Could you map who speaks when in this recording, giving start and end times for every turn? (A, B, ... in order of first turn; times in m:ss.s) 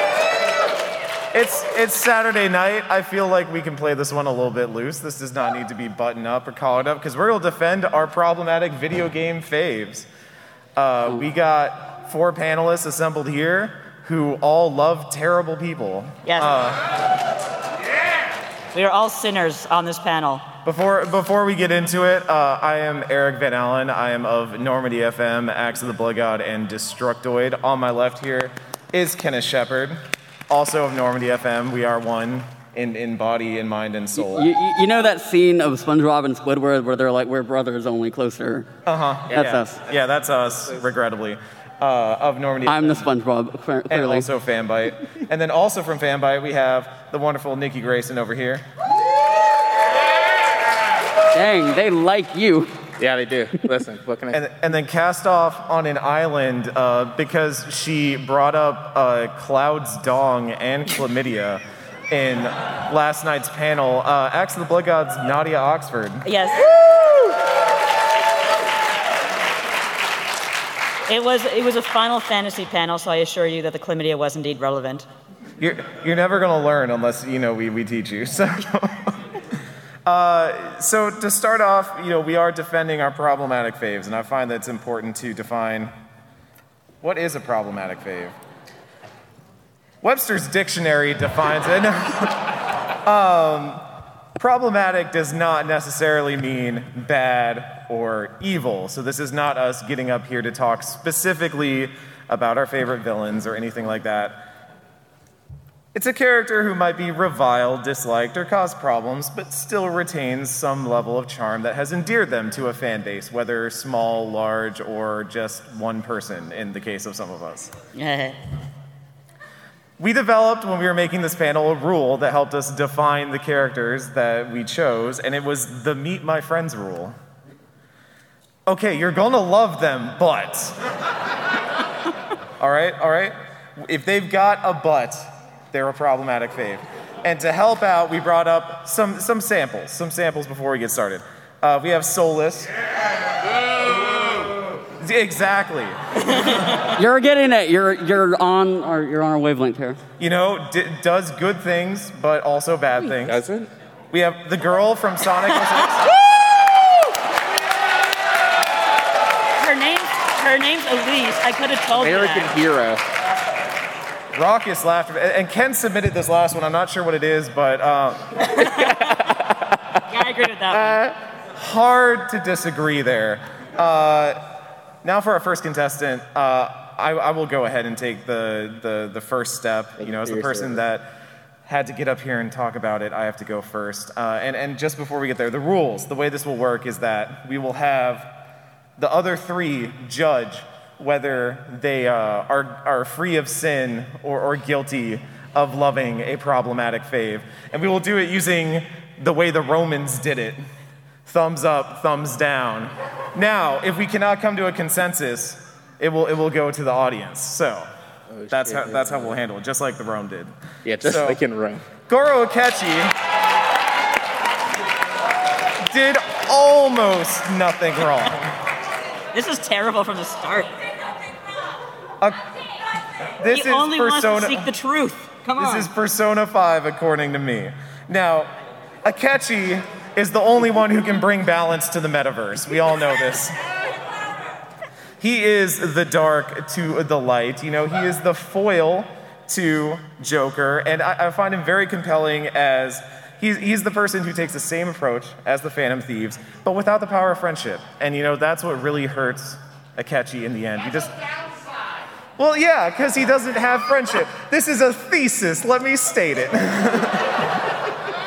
0:01.3-0:10.1 A
0:10.8-0:16.8 A
0:16.2-0:16.6 B
0:18.7-0:20.4 B
0:20.6-0:30.0 A
0:30.5-0:34.5 A
0:34.3-0:38.7 C
0:38.8-0:43.1 A
0:39.3-0:39.6 D
0:39.3-0:39.8 C
0:42.7-0:44.3 C
0:43.9-0:48.6 A
0:51.3-0:52.7 C
0:53.0-0:54.4 D
0:54.3-1:06.2 A
1:06.2-1:07.3 B
1:11.1-1:15.1 B
1:15.6-1:19.4 A
1:20.0-1:25.9 A
1:27.0-1:28.4 A
1:30.0-1:32.5 A
1:33.0-1:33.8 A
1:34.4-1:44.4 A
1:45.9-1:57.7 A
1:57.9-1:58.4 B
2:00.0-2:07.2 A
2:08.7-2:10.8 A
2:12.6-2:22.7 A
2:25.0-2:26.7 A
2:26.9-2:30.0 C
2:30.2-2:33.4 A
2:33.1-2:33.7 D
2:34.1-2:36.1 A
2:39.6-2:42.5 B
2:42.0-2:43.0 D
2:44.3-2:48.3 A
2:48.5-2:49.1 B
2:50.1-2:51.1 B
2:50.7-2:51.1 D
2:51.5-3:08.3 A
3:00.0-3:00.8 D
3:09.0-3:20.6 A
3:21.2-3:27.9 A
3:28.3-3:29.3 D
3:28.5-3:31.4 A
3:30.8-3:31.8 D
3:32.0-3:33.1 A
3:35.8-3:38.6 A
3:39.3-3:40.7 B
3:43.4-3:44.7 A
3:43.4-3:45.9 B
3:45.6-3:48.5 A
3:49.0-3:53.6 A
3:55.2-4:11.2 A
4:12.4-4:17.5 A